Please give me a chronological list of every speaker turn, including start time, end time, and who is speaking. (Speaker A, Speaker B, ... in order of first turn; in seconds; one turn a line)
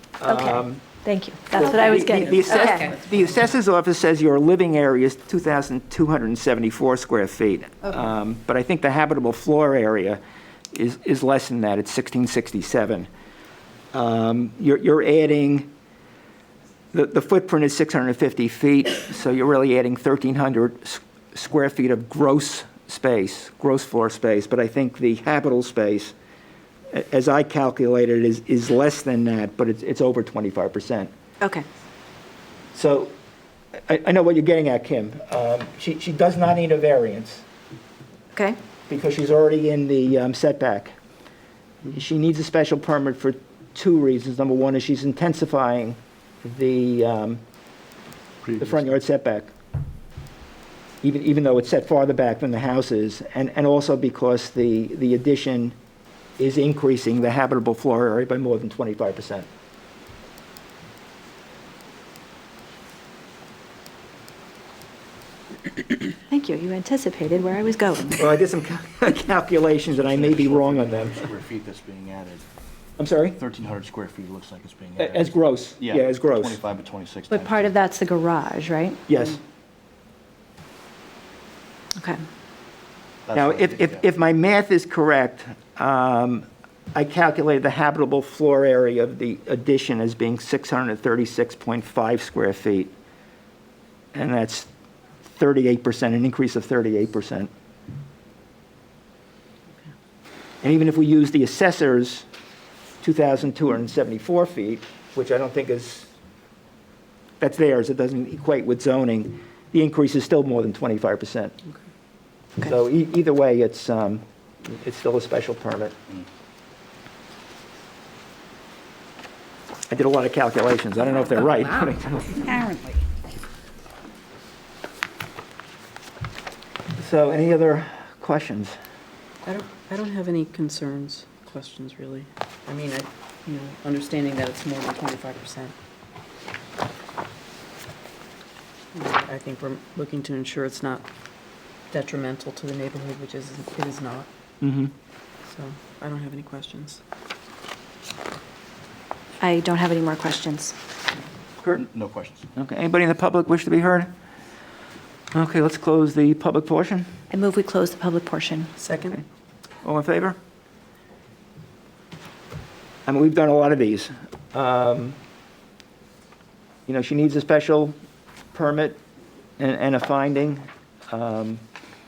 Speaker A: 0.2-0.8
Speaker B: 0.3-2.9
Speaker C: 1.6-2.9
Speaker A: 1.7-10.2
Speaker A: 10.7-13.1
Speaker A: 13.9-15.7
Speaker A: 16.9-26.1
Speaker A: 26.9-31.1
Speaker B: 31.4-31.7
Speaker A: 32.7-33.1
Speaker A: 33.9-37.4
Speaker A: 38.9-40.9
Speaker A: 41.9-47.4
Speaker A: 48.6-49.5
Speaker A: 51.0-55.8
Speaker A: 56.4-59.5
Speaker B: 66.3-68.2
Speaker A: 68.2-71.3
Speaker D: 69.9-72.4
Speaker A: 73.0-73.4
Speaker D: 73.4-77.7
Speaker A: 75.0-76.6
Speaker B: 77.3-79.0
Speaker A: 79.1-79.4
Speaker D: 83.3-84.0
Speaker A: 83.3-92.9
Speaker A: 94.1-94.7
Speaker A: 95.4-97.5
Speaker A: 100.6-102.3
Speaker A: 103.0-106.1
Speaker A: 107.4-111.5
Speaker A: 112.6-116.0
Speaker A: 119.9-122.7
Speaker A: 127.0-128.8
Speaker C: 129.4-135.8
Speaker C: 138.9-141.1
Speaker C: 141.9-144.3
Speaker A: 144.6-144.9
Speaker C: 145.5-147.0
Speaker B: 149.4-150.8
Speaker D: 151.7-152.5
Speaker A: 152.6-154.1
Speaker A: 155.3-157.1
Speaker B: 157.3-158.7
Speaker C: 158.8-159.2
Speaker A: 159.8-160.4
Speaker A: 163.1-165.2
Speaker A: 166.9-167.9
Speaker A: 168.5-169.0
Speaker A: 169.6-171.6